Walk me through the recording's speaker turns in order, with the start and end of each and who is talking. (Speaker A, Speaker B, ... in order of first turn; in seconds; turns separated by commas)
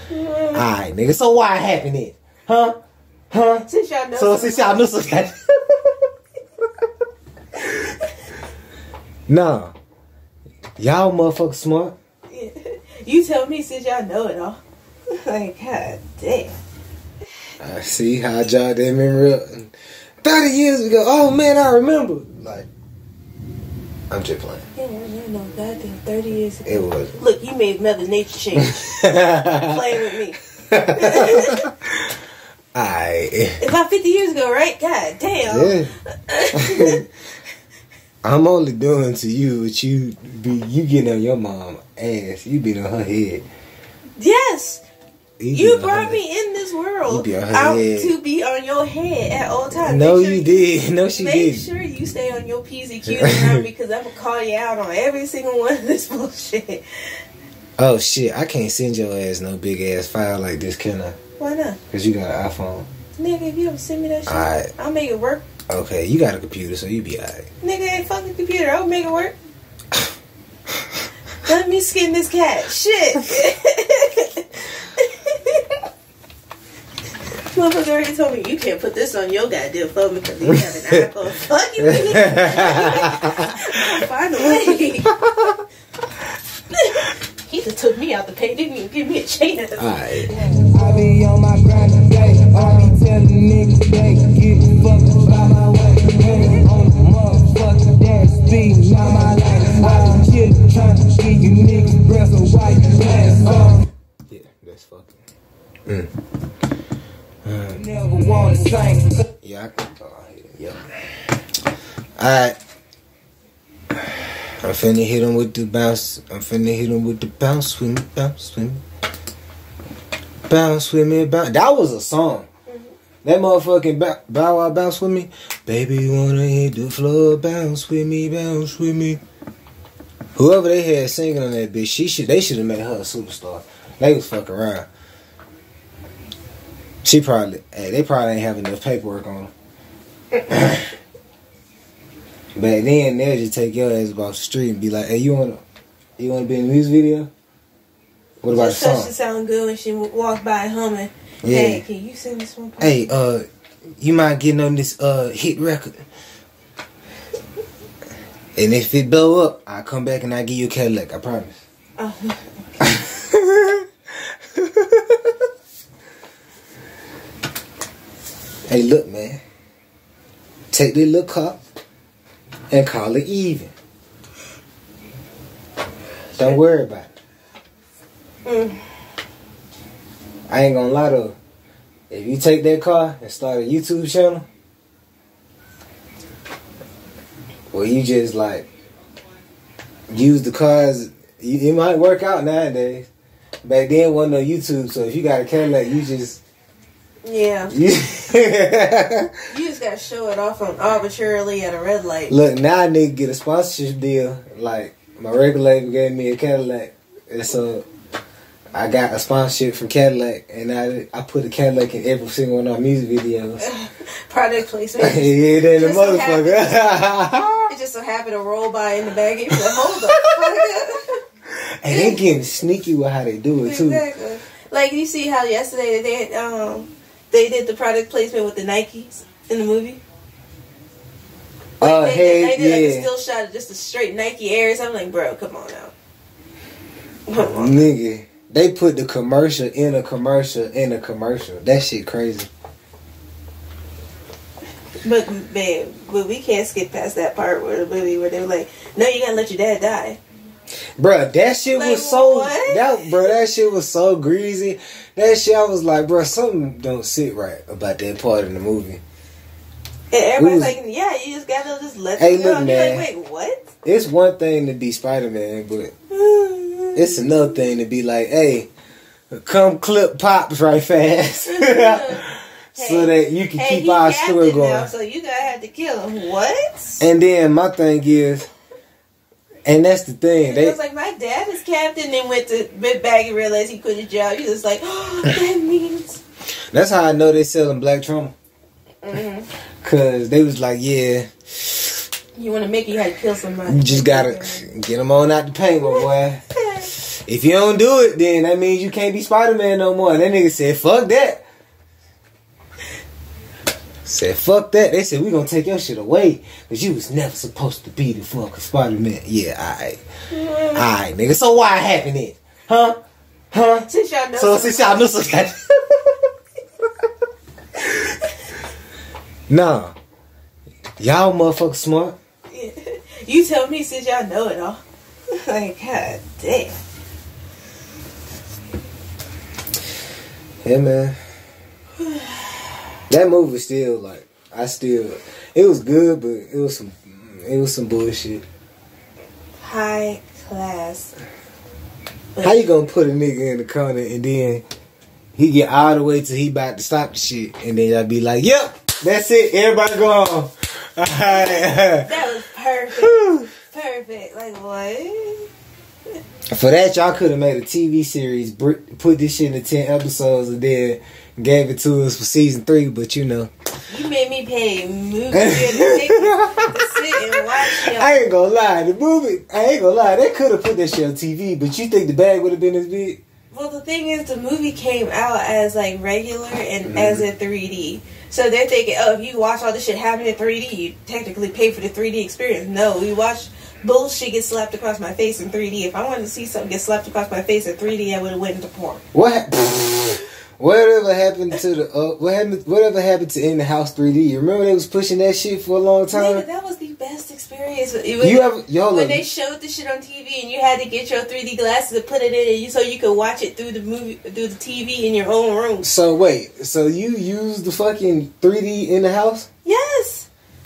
Speaker A: 0.1-0.6, Speaker B: 0.5-2.8, Speaker B: 3.3-5.7, Speaker A: 3.7-4.9, Speaker B: 9.3-9.7, Speaker B: 10.8-12.0, Speaker A: 12.3-14.6, Speaker A: 15.2-16.6, Speaker B: 17.6-22.7, Speaker B: 24.1-24.7, Speaker A: 24.8-30.4, Speaker B: 26.7-27.2, Speaker B: 28.7-29.7, Speaker B: 30.7-31.7, Speaker A: 30.9-31.6, Speaker B: 32.7-33.6, Speaker A: 33.6-37.0, Speaker B: 35.5-35.9, Speaker B: 36.5-37.0, Speaker B: 38.2-43.5, Speaker A: 44.2-44.8, Speaker B: 45.4-46.2, Speaker A: 45.5-50.6, Speaker B: 47.1-48.1, Speaker B: 49.8-51.7, Speaker A: 51.2-56.8, Speaker B: 53.0-53.6, Speaker B: 57.8-61.2, Speaker A: 61.4-61.8, Speaker B: 61.9-62.9, Speaker A: 63.2-65.5, Speaker B: 64.3-64.7, Speaker B: 65.7-67.5, Speaker A: 67.6-69.3, Speaker A: 71.4-75.8, Speaker A: 77.5-85.2, Speaker B: 81.8-83.5, Speaker B: 84.7-85.6, Speaker A: 86.7-91.2, Speaker B: 89.8-90.3, Speaker C: 90.7-103.8, Speaker A: 96.0-96.9, Speaker A: 99.3-99.8, Speaker A: 102.9-103.5, Speaker B: 104.3-105.2, Speaker B: 107.5-107.8, Speaker C: 108.0-109.1, Speaker A: 108.2-108.7, Speaker B: 109.4-110.8, Speaker B: 112.2-112.6, Speaker B: 114.6-118.8, Speaker B: 120.5-122.5, Speaker A: 122.7-122.9, Speaker B: 123.2-129.2, Speaker B: 130.3-134.9, Speaker B: 137.0-139.5, Speaker B: 140.5-140.9, Speaker B: 142.6-145.6, Speaker B: 146.2-147.3, Speaker B: 148.4-149.1, Speaker A: 148.5-153.0, Speaker B: 151.4-151.8, Speaker B: 152.8-153.4, Speaker B: 154.0-156.0, Speaker B: 158.6-161.6, Speaker A: 162.0-162.5, Speaker B: 162.8-163.8, Speaker B: 164.5-165.1, Speaker B: 168.7-169.4, Speaker B: 170.7-171.6, Speaker B: 172.7-173.7, Speaker B: 176.3-177.1, Speaker A: 178.4-178.8, Speaker B: 180.5-181.3, Speaker B: 182.1-184.4, Speaker B: 187.7-188.7, Speaker B: 190.1-193.1, Speaker B: 193.6-196.4, Speaker A: 197.2-197.7, Speaker B: 197.7-199.3, Speaker A: 199.5-202.3, Speaker B: 202.3-207.8, Speaker B: 208.7-213.7, Speaker A: 213.6-217.0, Speaker B: 215.0-217.7, Speaker A: 217.7-221.2, Speaker B: 219.8-220.3, Speaker B: 221.8-224.0, Speaker A: 221.9-222.2, Speaker A: 223.6-230.0, Speaker A: 231.8-235.9, Speaker B: 231.8-233.1, Speaker A: 237.3-237.9, Speaker B: 237.3-242.5, Speaker A: 245.0-250.2, Speaker B: 251.0-259.0, Speaker A: 251.8-253.2, Speaker A: 260.1-263.7, Speaker B: 260.4-260.8, Speaker B: 262.2-263.1, Speaker B: 263.8-265.9, Speaker A: 266.1-267.5, Speaker B: 266.9-268.7, Speaker B: 269.3-274.9, Speaker A: 271.4-272.2, Speaker A: 272.8-277.0, Speaker B: 277.0-278.5, Speaker B: 279.6-280.8, Speaker A: 280.4-286.2, Speaker B: 286.7-288.3, Speaker A: 289.0-289.5, Speaker B: 289.8-291.9, Speaker A: 292.3-294.7, Speaker B: 293.6-296.4, Speaker A: 295.8-296.9, Speaker B: 297.2-301.4, Speaker B: 304.1-310.0, Speaker A: 310.3-310.9, Speaker B: 310.7-313.0, Speaker B: 313.5-315.7, Speaker A: 313.9-315.1, Speaker B: 319.5-319.9, Speaker B: 321.0-322.1, Speaker A: 322.5-326.8, Speaker B: 330.6-331.1, Speaker A: 332.0-332.3, Speaker B: 333.1-338.4, Speaker A: 339.6-341.1, Speaker A: 342.3-342.6, Speaker B: 342.4-344.6, Speaker B: 345.4-352.1, Speaker A: 351.3-355.5, Speaker B: 353.0-353.5, Speaker B: 356.5-363.5, Speaker A: 363.9-368.1, Speaker B: 365.3-373.2, Speaker A: 373.5-389.0, Speaker B: 376.9-377.2, Speaker B: 389.1-396.4, Speaker A: 396.1-405.9, Speaker B: 398.2-399.3, Speaker B: 405.8-409.5, Speaker A: 409.6-410.3